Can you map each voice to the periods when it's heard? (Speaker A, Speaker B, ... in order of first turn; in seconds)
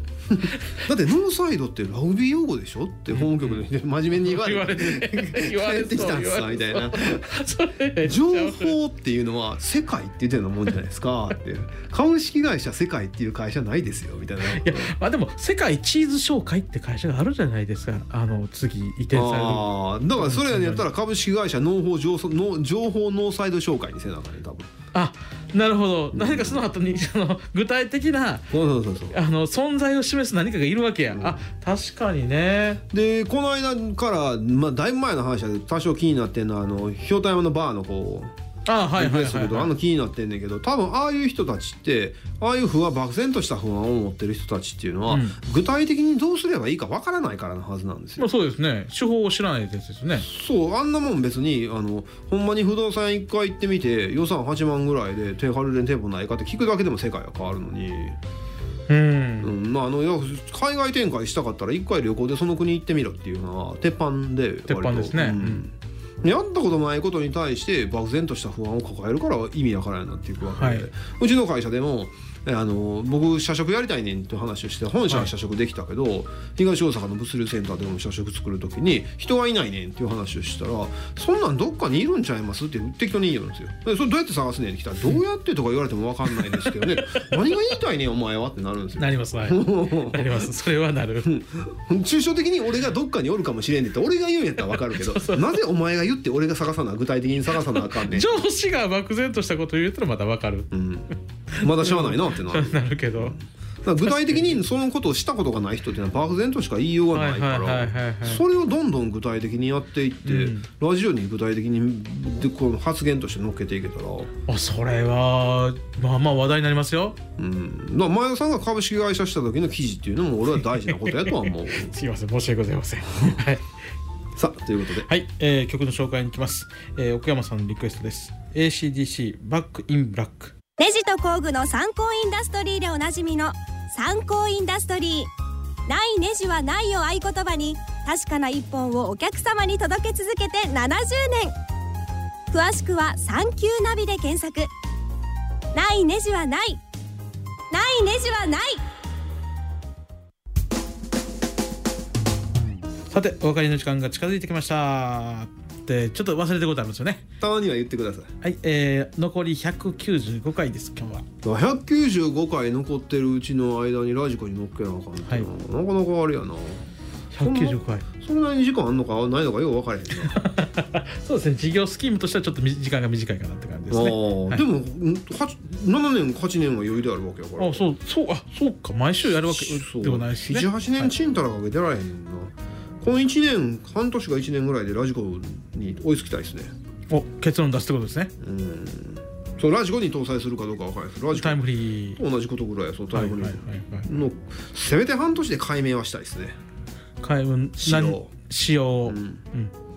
Speaker A: 0.3-7.3, 8.0-14.9, 19.1-24.7, 26.1-26.7, 28.5-29.1, 31.1-31.4, 32.9-38.3, 39.0-48.3, 50.2-58.2, 59.4-90.5, 91.2-98.4, 100.7-101.1, 101.6-114.3, 117.4-121.9, 124.3-125.1, 157.4-158.3, 161.4-166.8, 167.4-170.4, 173.9-177.8, 179.2-186.7, 188.4-196.6, 197.8-198.3, 199.1-199.4
Speaker B: 3.1-3.6, 4.2-8.8, 14.5-20.9, 24.9-28.6, 29.1-32.8, 38.7-39.7, 45.1-45.4, 48.2-50.3, 58.9-59.5, 64.7-65.7, 70.6-70.9, 89.0-91.3, 94.9-95.6, 97.9-103.4, 104.0-104.6, 107.1-108.4, 110.2-110.7, 114.5-117.2, 120.8-123.7, 125.0-130.6, 153.1-157.2, 158.4-161.3, 167.3-168.1, 170.3-174.6, 177.6-181.1, 187.1-188.3, 191.3-192.2, 193.1-194.1, 197.2-199.7
Speaker C: 130.8-135.3, 135.9-141.6, 142.5-144.7, 145.7-146.8, 147.7-148.8